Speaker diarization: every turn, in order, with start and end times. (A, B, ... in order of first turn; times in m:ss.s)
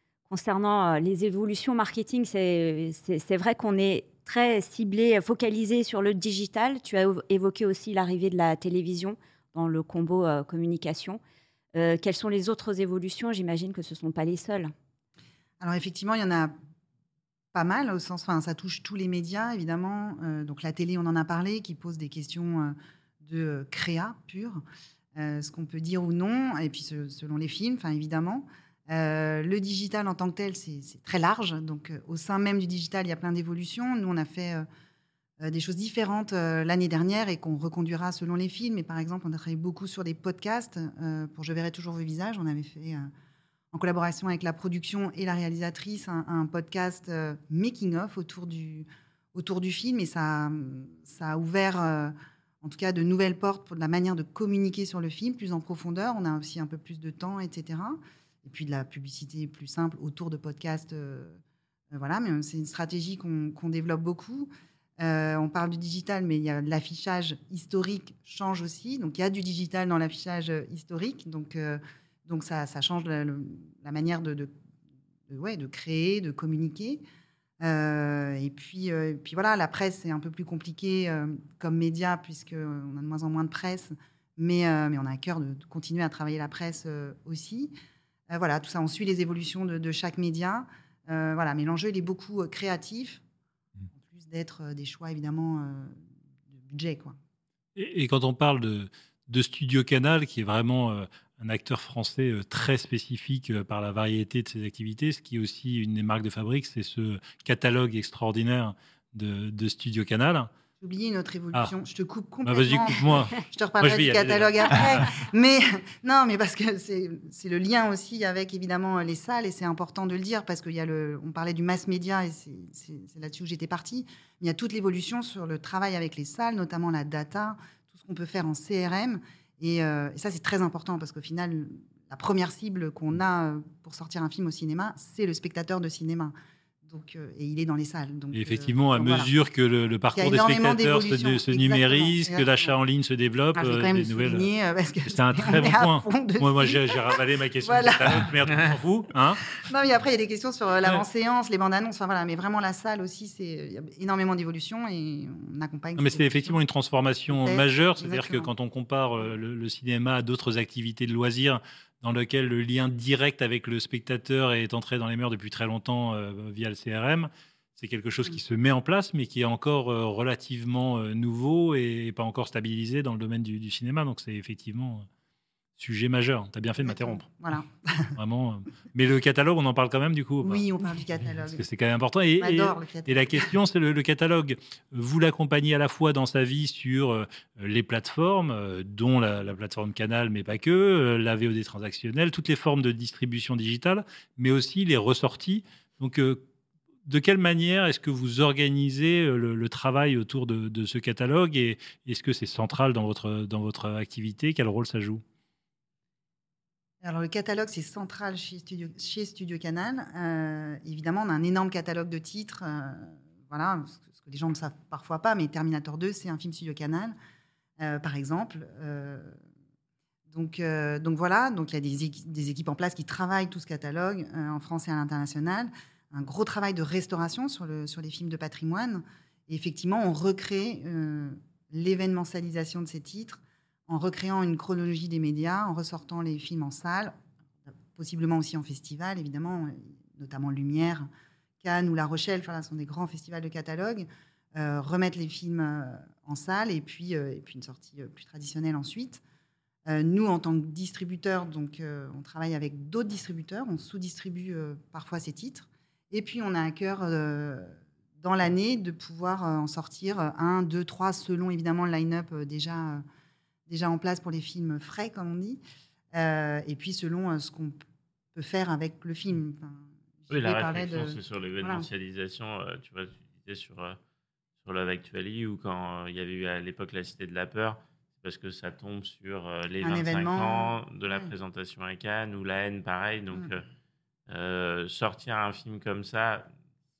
0:00.3-0:11.2 A
0:11.7-0:14.7 A
0:15.6-0:16.5 B
0:17.5-0:24.6 B
0:25.2-0:34.6 B
0:35.4-0:43.1 B
0:43.7-1:01.4 B
1:01.9-1:14.5 B
1:15.3-1:17.0 B
1:17.6-1:27.7 B
1:28.3-1:33.2 B
1:33.9-1:36.0 B
1:36.5-1:37.2 B
1:37.8-1:50.5 C
1:50.8-2:19.3 B
1:52.4-1:55.2 C
2:18.3-2:24.5 C
2:20.1-2:22.7 B
2:23.6-2:28.6 B
2:25.1-2:29.4 C
2:29.5-2:36.6 B
2:36.0-2:55.1 C
2:37.3-2:38.5 B
2:55.8-2:57.3 C
2:56.8-2:58.2 B
2:58.2-3:00.7 C
3:00.4-3:01.6 B
3:01.4-3:16.4 C
3:02.4-3:03.5 B
3:17.1-3:25.2 C
3:27.0-3:37.2 B
3:37.8-3:39.4 B
3:40.3-3:57.2 B
3:57.9-4:01.1 B
4:01.6-4:09.2 B
4:09.9-4:23.0 B
4:23.7-4:25.6 B
4:26.1-4:27.8 B
4:28.3-4:31.9 B
4:30.3-4:34.0 D
4:34.6-4:43.6 D
4:39.8-4:41.3 B
4:44.3-4:46.5 D